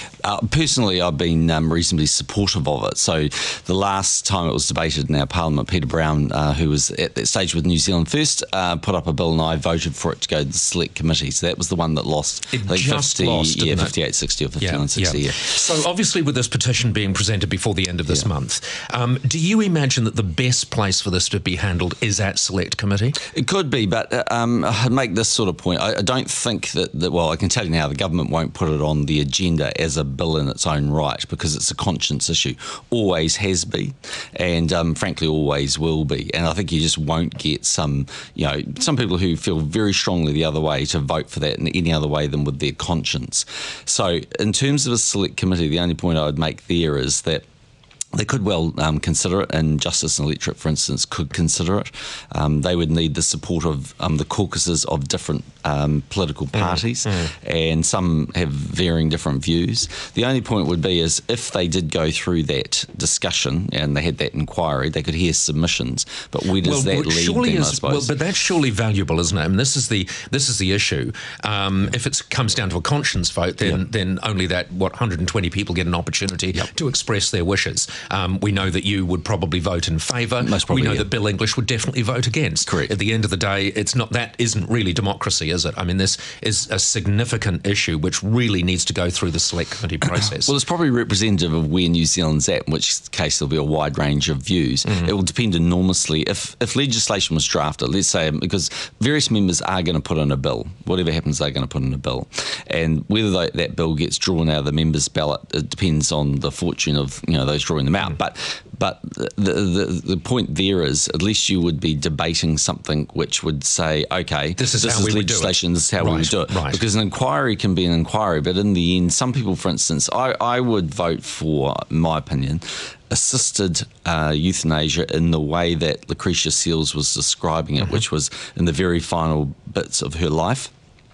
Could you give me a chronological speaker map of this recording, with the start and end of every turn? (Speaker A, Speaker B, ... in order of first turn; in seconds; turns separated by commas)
Speaker A: 0.2-15.4, Speaker B: 12.5-13.9, Speaker B: 14.6-23.2, Speaker A: 23.2-47.4, Speaker A: 48.1-68.1, Speaker B: 56.5-57.3, Speaker B: 66.6-90.5, Speaker A: 80.4-81.1, Speaker A: 82.7-82.9, Speaker A: 90.2-130.7, Speaker B: 114.6-116.8